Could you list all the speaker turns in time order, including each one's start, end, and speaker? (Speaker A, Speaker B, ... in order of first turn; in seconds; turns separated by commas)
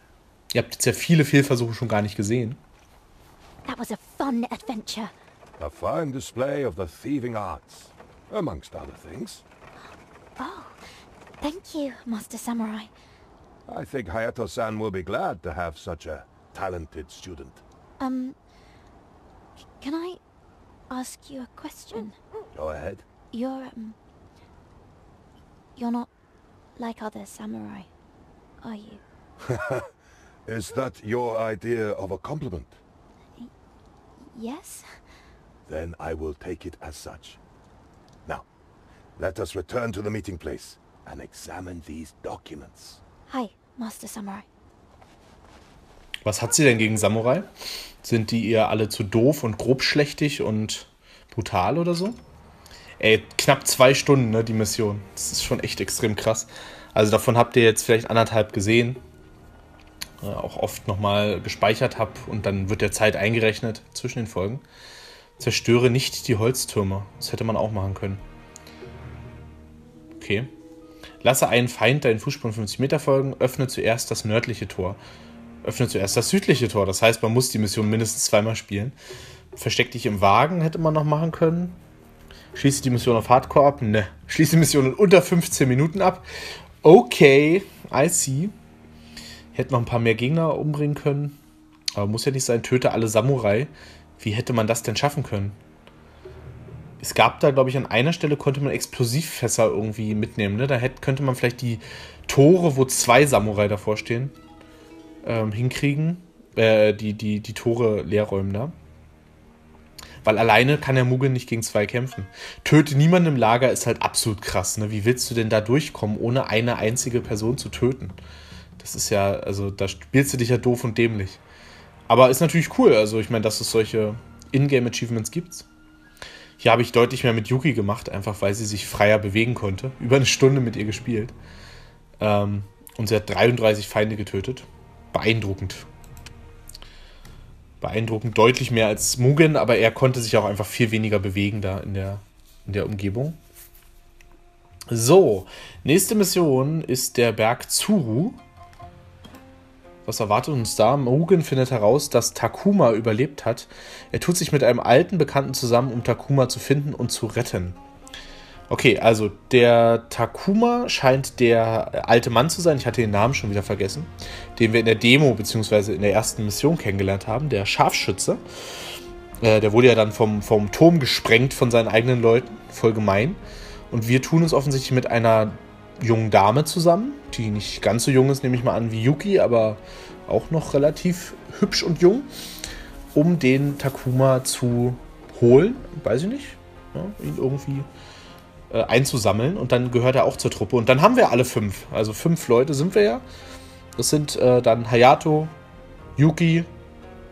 Speaker A: 0.5-2.6, Speaker B: 3.6-5.1, Speaker C: 5.6-9.4, Speaker B: 10.4-10.8, Speaker B: 11.4-12.9, Speaker C: 13.7-17.6, Speaker B: 18.0-18.4, Speaker B: 19.8-20.2, Speaker B: 20.9-22.1, Speaker C: 22.5-23.0, Speaker B: 23.3-24.0, Speaker B: 25.8-26.1, Speaker B: 26.8-27.9, Speaker B: 28.6-29.0, Speaker C: 29.4-29.9, Speaker C: 30.4-32.8, Speaker B: 34.2-35.0, Speaker C: 35.6-37.4, Speaker C: 39.2-43.0, Speaker B: 43.3-44.4, Speaker A: 46.2-47.5, Speaker A: 48.0-52.2, Speaker A: 53.0-59.0, Speaker A: 60.2-64.6, Speaker A: 65.4-68.2, Speaker A: 70.2-70.5, Speaker A: 71.2-75.0, Speaker A: 75.6-79.0, Speaker A: 79.5-81.8, Speaker A: 82.5-86.2, Speaker A: 86.8-88.5, Speaker A: 89.5-91.4, Speaker A: 92.0-95.6, Speaker A: 97.0-104.3, Speaker A: 105.2-108.7, Speaker A: 110.2-118.2, Speaker A: 118.8-121.4, Speaker A: 122.1-125.7, Speaker A: 126.6-131.3, Speaker A: 132.2-135.9, Speaker A: 137.8-143.4, Speaker A: 144.9-148.4, Speaker A: 150.1-157.8, Speaker A: 158.7-168.4, Speaker A: 169.4-173.4, Speaker A: 173.9-182.3, Speaker A: 183.1-187.9, Speaker A: 188.7-193.2, Speaker A: 194.0-195.5, Speaker A: 196.2-196.7